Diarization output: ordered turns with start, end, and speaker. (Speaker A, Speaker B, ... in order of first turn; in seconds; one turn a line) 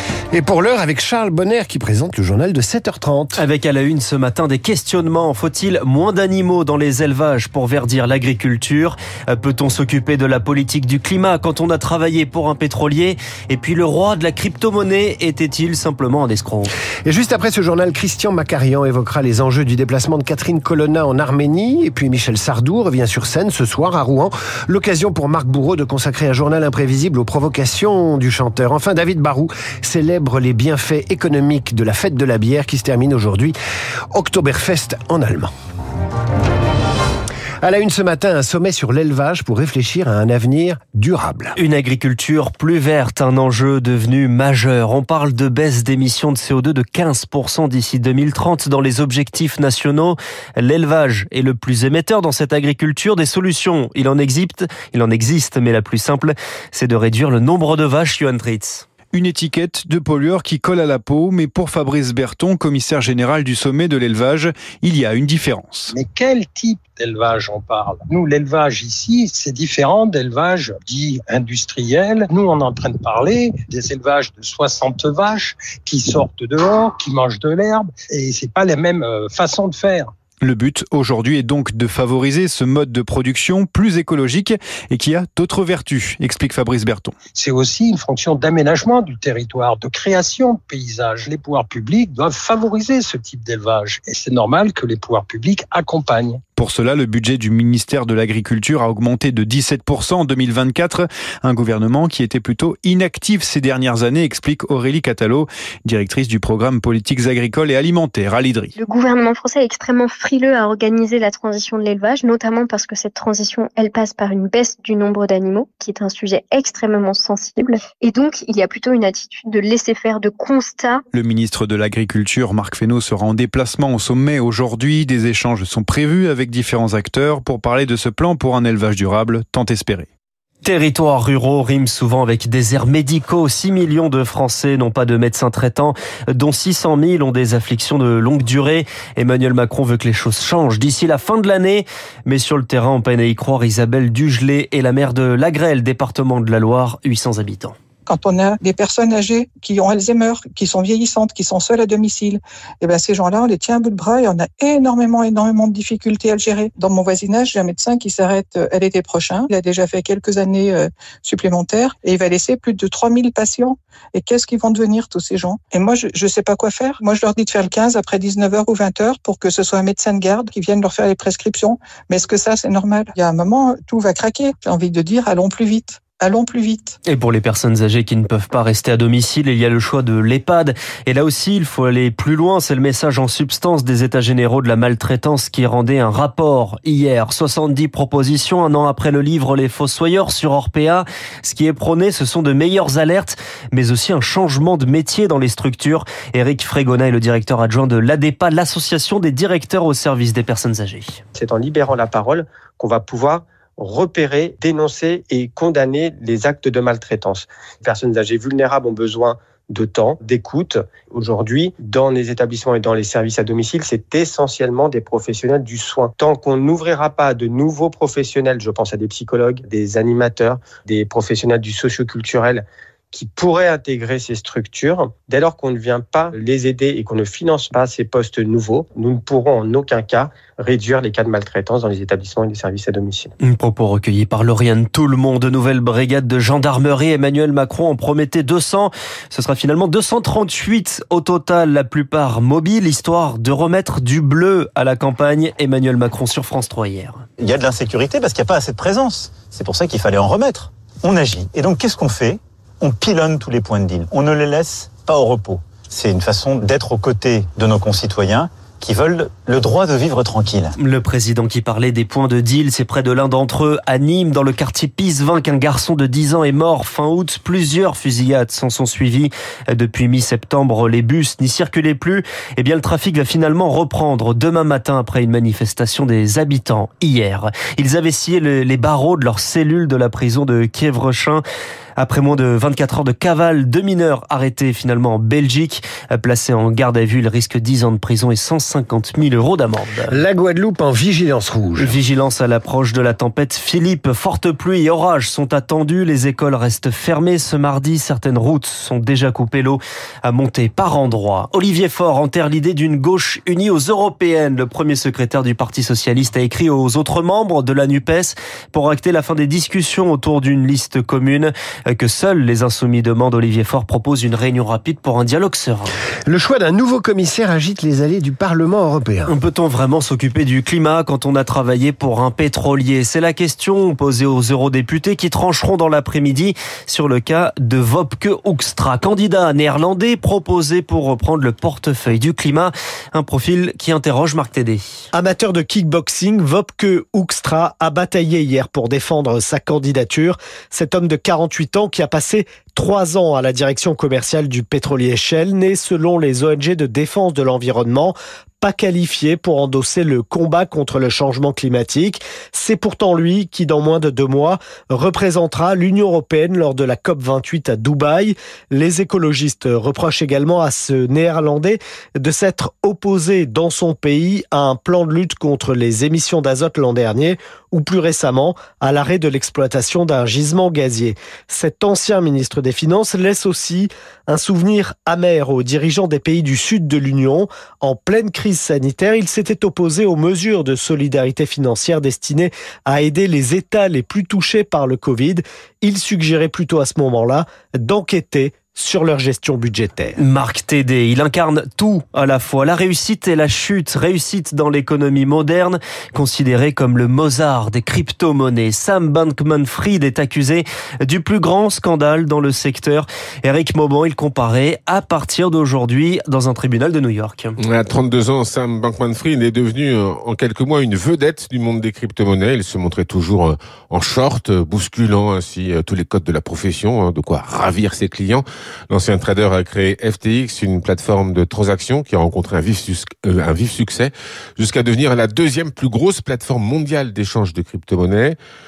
Speaker A: 0.3-3.4
Speaker B: 3.4-16.7
Speaker A: 17.1-33.6
Speaker A: 34.1-35.5
Speaker A: 37.6-41.5
Speaker B: 41.6-58.9
Speaker C: 59.1-65.9
Speaker D: 65.9-80.1
Speaker C: 80.4-87.2
Speaker D: 87.3-96.4
Speaker C: 96.6-108.7
Speaker E: 108.8-121.0
Speaker C: 121.1-130.1
Speaker B: 130.6-147.8
Speaker F: 148.1-177.0
Speaker B: 177.1-201.2
Speaker G: 201.3-233.3
Speaker B: 233.4-247.2
Speaker H: 247.4-260.7
Speaker B: 260.8-281.4
Speaker B: 282.0-290.2
Speaker A: 290.1-292.0
Speaker B: 291.8-315.9
Speaker A: 316.3-319.3
Speaker B: 319.3-334.8
Speaker I: 335.1-390.2
Speaker B: 390.2-407.6
Speaker J: 407.6-428.4